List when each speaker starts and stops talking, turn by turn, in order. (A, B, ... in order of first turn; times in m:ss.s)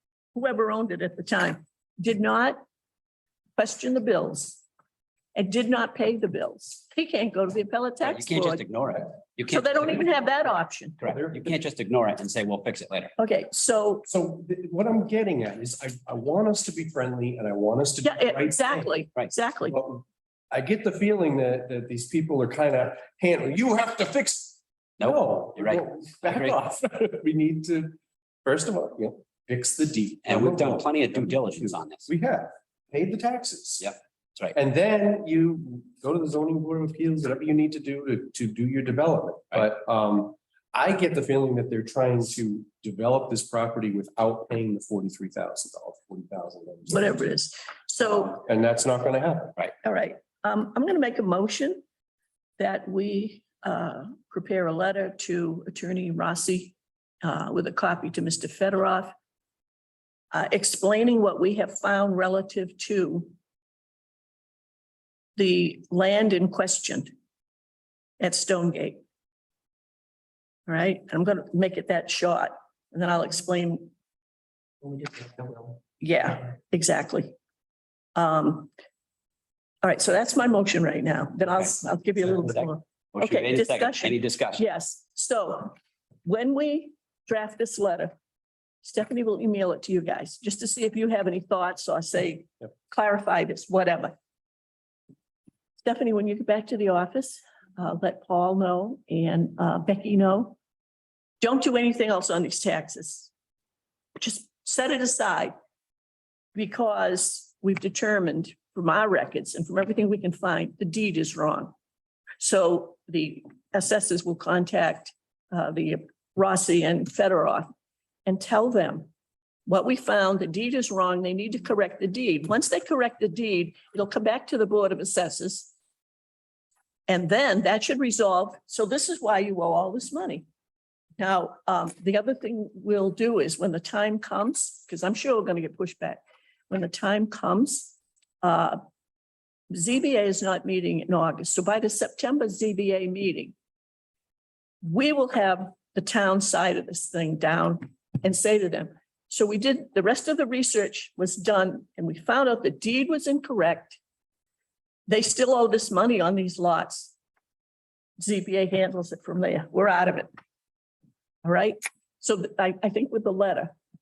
0:00.3-0:02.6 A
0:03.6-0:04.6 A
0:05.3-0:08.6 A
0:08.0-0:10.1 B
0:09.5-0:11.0 A
0:11.0-0:13.1 B
0:11.1-0:11.6 C
0:13.2-0:14.0 A
0:14.1-0:19.0 C
0:18.0-0:19.8 A
0:19.7-0:33.9 C
0:25.0-0:26.6 B
0:30.2-0:32.0 B
0:33.8-0:34.6 B
0:34.5-0:47.2 C
0:46.9-0:48.4 A
0:48.0-0:49.6 C
0:49.8-0:51.8 A
0:52.6-0:59.1 A
1:00.3-1:03.3 A
1:05.4-1:07.1 A
1:08.2-1:09.0 A
1:10.7-1:13.9 A
1:16.0-1:17.4 A
1:18.1-1:18.7 A
1:19.8-1:28.1 A
1:23.1-1:24.6 B
1:28.8-1:34.1 A
1:35.8-1:40.6 A
1:41.4-1:43.3 A
1:44.2-1:45.5 A
1:46.5-1:51.7 A
1:52.4-1:57.7 A
1:58.2-1:59.1 A
1:59.6-2:05.7 A
2:07.1-2:10.4 A
2:11.2-2:18.8 A
2:19.7-2:23.5 A
2:24.8-2:34.0 A
2:35.1-2:37.1 A
2:38.2-2:40.3 A
2:41.4-2:43.8 A